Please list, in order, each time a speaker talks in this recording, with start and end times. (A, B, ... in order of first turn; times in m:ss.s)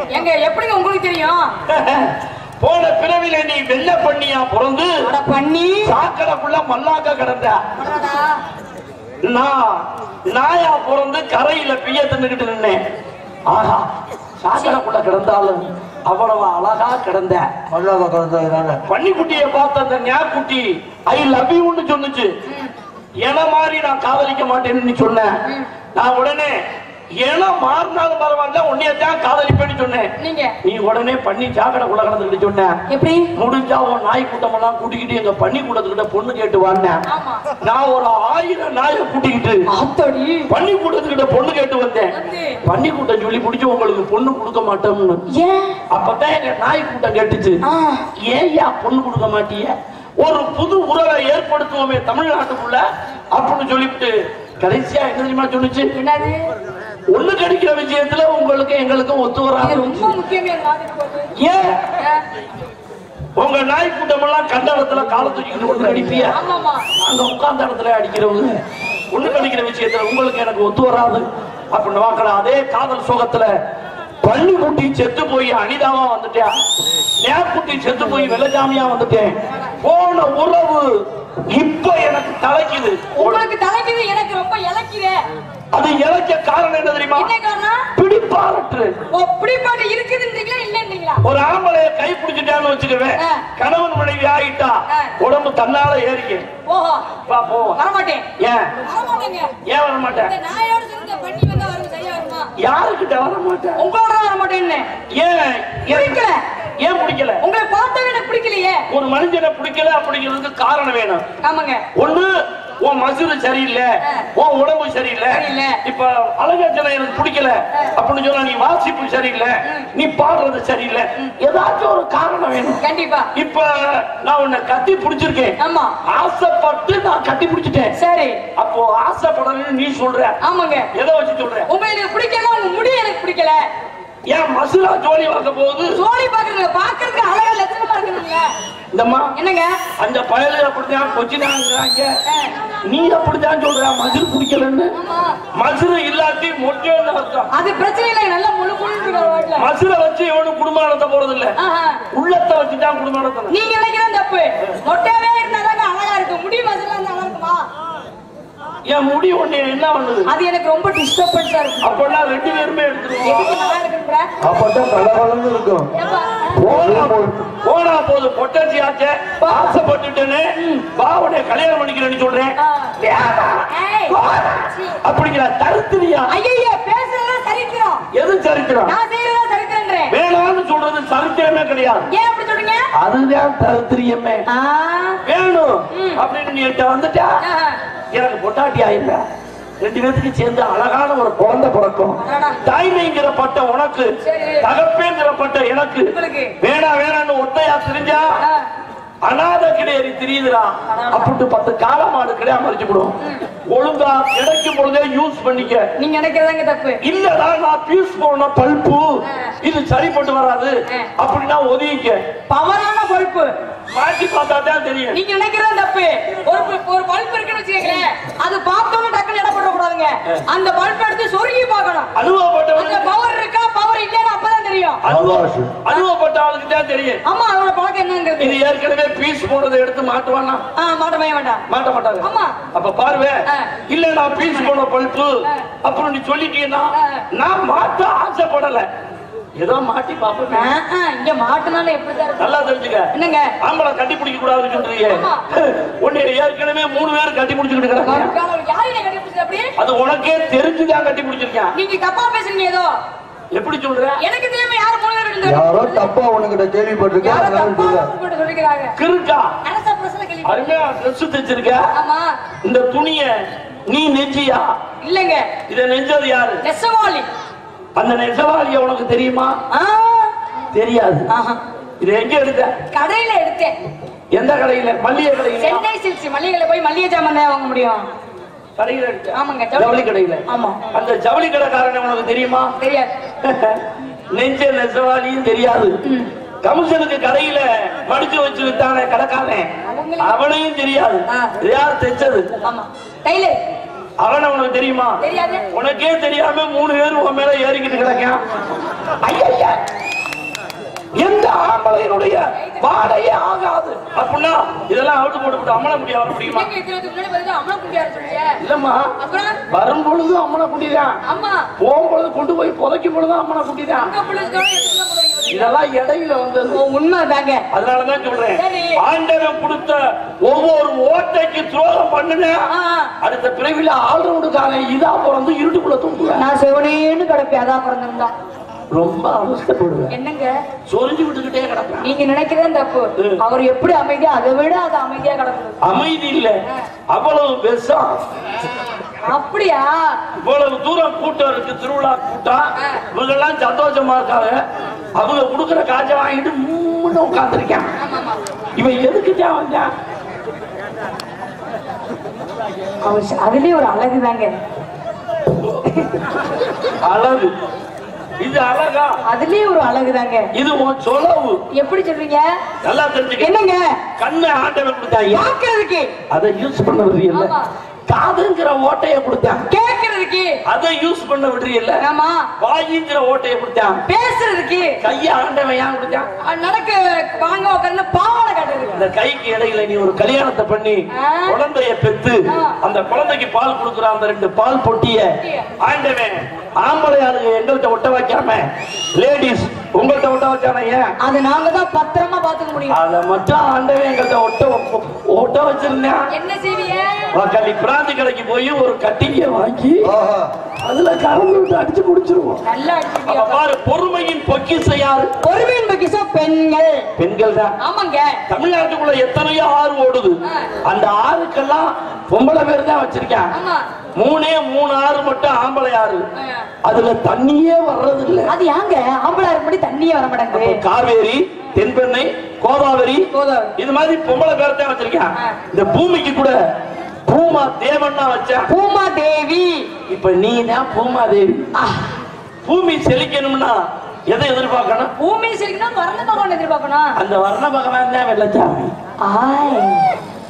0:00.1-0:01.5 A
0:01.7-0:04.9 B
0:05.0-0:05.9 A
0:05.8-0:07.6 B
0:07.8-0:08.4 A
0:09.2-0:12.8 B
0:13.5-0:13.8 B
0:14.4-0:17.5 B
0:17.7-0:18.8 C
0:18.9-0:22.3 B
0:22.4-0:22.7 A
0:23.2-0:25.3 B
0:25.9-0:26.5 B
0:27.2-0:30.1 B
0:30.2-0:30.5 A
0:30.6-0:32.8 B
0:32.9-0:33.3 A
0:33.4-0:37.0 B
0:37.1-0:37.4 A
0:37.6-0:39.6 B
0:39.7-0:40.5 A
0:40.5-0:42.1 B
0:42.1-0:42.6 A
0:42.6-0:45.2 B
0:45.3-0:45.8 A
0:45.9-0:47.6 B
0:47.6-0:48.0 A
0:48.2-0:55.9 B
0:55.9-0:56.4 A
0:57.1-1:00.1 B
0:59.6-1:01.3 A
1:01.4-1:01.8 B
1:03.4-1:06.4 B
1:06.3-1:06.9 A
1:07.0-1:08.6 B
1:09.1-1:13.5 B
1:14.2-1:16.5 B
1:17.2-1:20.9 B
1:21.5-1:23.4 B
1:23.1-1:25.2 A
1:25.7-1:27.3 B
1:27.2-1:27.9 A
1:28.0-1:28.9 B
1:29.1-1:31.2 A
1:31.2-1:36.4 B
1:33.2-1:33.4 A
1:36.7-1:37.1 A
1:37.3-1:37.8 B
1:37.8-1:38.2 A
1:38.4-1:38.7 B
1:38.8-1:39.5 A
1:39.6-1:40.3 B
1:40.2-1:42.5 A
1:42.6-1:43.8 B
1:43.8-1:44.9 A
1:45.2-1:46.2 B
1:45.9-1:46.4 A
1:46.8-1:47.4 B
1:47.4-1:48.8 A
1:48.9-1:51.2 B
1:51.4-1:51.8 A
1:52.0-2:02.8 B
1:54.0-1:54.3 A
1:55.3-1:55.8 A
1:59.6-1:59.9 A
2:02.8-2:03.3 A
2:03.3-2:07.9 B
2:05.6-2:05.9 A
2:07.9-2:08.4 A
2:08.6-2:10.4 B
2:10.4-2:10.9 A
2:10.9-2:11.7 B
2:11.7-2:13.6 A
2:14.3-2:16.0 B
2:15.9-2:18.5 A
2:18.9-2:19.3 B
2:19.3-2:19.8 A
2:20.0-2:22.1 B
2:22.3-2:22.6 A
2:22.8-2:24.9 B
2:24.9-2:25.4 A
2:25.6-2:27.5 B
2:27.5-2:29.7 A
2:29.6-2:31.5 B
2:31.6-2:32.0 A
2:32.1-2:33.5 B
2:33.5-2:37.6 A
2:38.9-2:40.3 B
2:40.3-2:41.9 A
2:41.8-2:43.8 B
2:43.2-2:44.3 A
2:44.4-2:45.9 C
2:45.9-2:46.6 A
2:46.6-2:47.5 C
2:46.6-2:56.3 B
2:49.4-2:49.8 A
2:50.6-2:50.8 A
2:52.6-2:52.9 A
2:53.7-2:55.0 A
2:56.3-2:58.0 A
2:58.1-2:58.9 B
2:58.8-3:00.1 A
3:00.1-3:02.1 B
3:02.1-3:02.9 A
3:02.9-3:04.4 B
3:04.5-3:05.2 A
3:05.2-3:07.4 B
3:05.9-3:06.2 A
3:07.4-3:07.8 A
3:08.1-3:09.2 B
3:09.8-3:18.4 B
3:12.2-3:12.6 A
3:14.2-3:14.6 A
3:16.1-3:16.5 A
3:18.4-3:18.6 A
3:19.2-3:23.1 B
3:20.9-3:21.3 A
3:23.2-3:23.4 A
3:23.7-3:25.8 B
3:26.0-3:27.0 A
3:27.0-3:32.2 B
3:29.2-3:29.5 A
3:32.5-3:33.5 A
3:33.9-3:35.2 B
3:35.1-3:42.1 A
3:42.2-3:43.1 B
3:42.7-3:45.0 A
3:45.0-3:47.2 B
3:45.1-3:45.7 C
3:47.2-3:48.5 A
3:48.4-3:50.6 B
3:50.8-3:51.6 A
3:51.7-3:58.9 B
3:52.2-3:52.6 A
3:54.4-3:54.7 A
3:56.9-3:57.2 A
3:59.6-4:00.7 B
4:00.5-4:02.5 A
4:02.4-4:03.1 B
4:03.1-4:03.5 A
4:03.6-4:08.3 B
4:05.1-4:05.4 A
4:08.0-4:09.7 A
4:09.8-4:11.7 B
4:11.7-4:13.0 A
4:13.5-4:14.2 B
4:14.2-4:16.1 A
4:15.4-4:18.1 C
4:17.2-4:18.9 A
4:19.0-4:19.5 B
4:19.6-4:20.6 A
4:20.4-4:21.8 B
4:21.9-4:22.3 A
4:22.6-4:23.3 B
4:23.9-4:24.7 B
4:25.0-4:25.5 A
4:25.7-4:26.6 B
4:26.6-4:27.3 A
4:28.0-4:29.6 B
4:29.7-4:30.3 A
4:30.7-4:31.3 B
4:31.3-4:31.6 A
4:32.0-4:32.7 B
4:32.9-4:33.8 A
4:34.3-4:35.8 B
4:35.6-4:38.0 A
4:38.8-4:42.7 B
4:39.3-4:40.8 A
4:42.8-4:43.1 A
4:43.4-4:46.0 B
4:46.0-4:46.3 A
4:46.6-4:52.5 B
4:49.8-4:50.4 A
4:52.6-4:53.6 A
4:54.2-4:58.4 B
4:55.2-4:55.6 A
4:59.2-4:59.7 B
5:01.2-5:06.7 B
5:02.5-5:02.9 A
5:06.5-5:08.6 A
5:08.6-5:09.1 B
5:09.2-5:09.6 A
5:09.7-5:11.2 B
5:11.2-5:11.7 A
5:11.8-5:14.1 B
5:14.0-5:15.7 A
5:15.5-5:16.8 B
5:16.7-5:17.6 A
5:17.7-5:22.6 B
5:18.5-5:19.0 A
5:22.7-5:23.1 A
5:23.2-5:26.4 B
5:26.4-5:28.3 A
5:28.9-5:30.1 B
5:30.1-5:30.6 A
5:30.9-5:32.1 B
5:32.0-5:35.8 A
5:35.8-5:36.6 B
5:37.1-5:38.1 B
5:39.2-5:40.2 A
5:40.4-5:44.6 B
5:45.2-5:47.9 B
5:48.0-5:48.4 A
5:48.8-5:49.9 B
5:53.0-5:54.5 A
5:55.6-5:55.8 B
5:57.0-5:57.5 B
5:58.4-5:59.2 B
5:59.3-6:00.5 A
6:00.5-6:01.6 B
6:01.7-6:02.4 A
6:02.8-6:03.5 B
6:03.4-6:04.0 A
6:04.2-6:05.5 B
6:05.3-6:06.1 A
6:06.3-6:07.5 B
6:07.3-6:07.7 A
6:08.1-6:09.6 B
6:09.7-6:10.6 A
6:10.7-6:12.0 B
6:12.0-6:12.5 A
6:12.6-6:14.0 B
6:14.1-6:15.0 A
6:15.0-6:16.3 B
6:16.4-6:19.0 A
6:19.0-6:31.1 B
6:21.1-6:21.6 A
6:22.5-6:22.8 A
6:25.4-6:25.7 A
6:31.2-6:33.0 A
6:32.9-6:36.3 B
6:36.3-6:37.3 A
6:37.3-6:40.1 B
6:40.0-6:40.5 C
6:40.8-6:42.6 B
6:42.6-6:43.6 A
6:43.3-6:45.3 B
6:45.4-6:47.0 A
6:47.2-6:47.8 B
6:47.8-6:48.4 A
6:48.5-6:53.5 B
6:50.4-6:50.7 A
6:53.5-6:53.8 A
6:54.2-6:56.2 B
6:56.3-6:56.7 A
6:56.8-6:58.5 B
6:58.5-7:00.8 A
7:00.5-7:06.6 B
7:03.3-7:03.7 A
7:07.3-7:08.7 B
7:08.7-7:09.9 A
7:10.1-7:11.7 B
7:11.7-7:12.1 A
7:12.6-7:15.1 B
7:15.2-7:17.2 A
7:17.2-7:18.9 B
7:19.2-7:20.1 A